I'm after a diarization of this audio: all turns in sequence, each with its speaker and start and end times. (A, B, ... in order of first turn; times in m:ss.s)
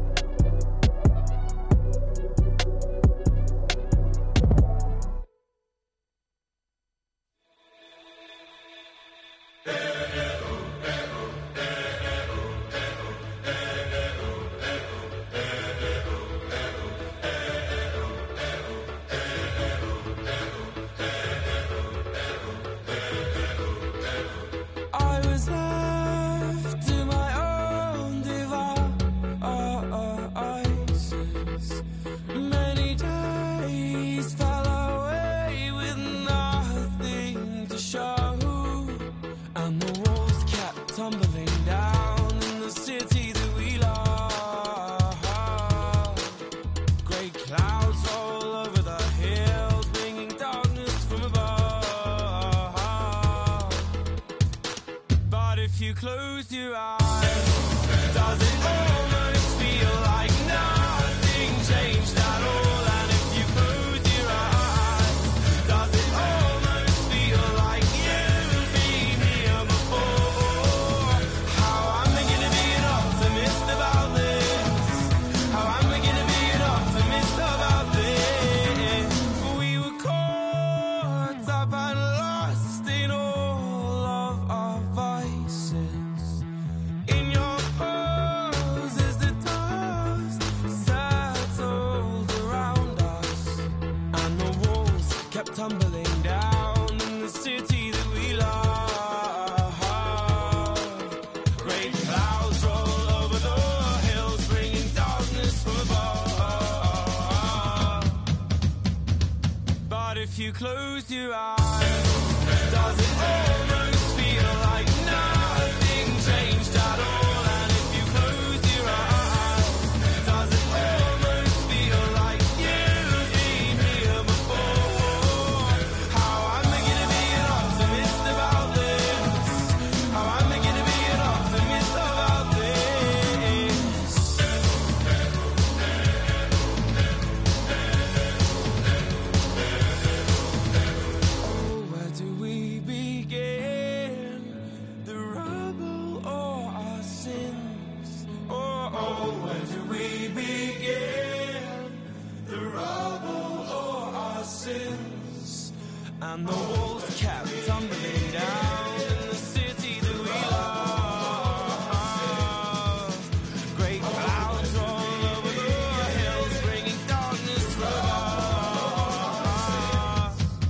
0:24.9-0:46.4 A
0:47.0-0:54.0 A
0:55.2-1:26.4 A
1:27.0-1:48.2 A
1:49.8-2:14.5 A
2:21.4-2:50.4 A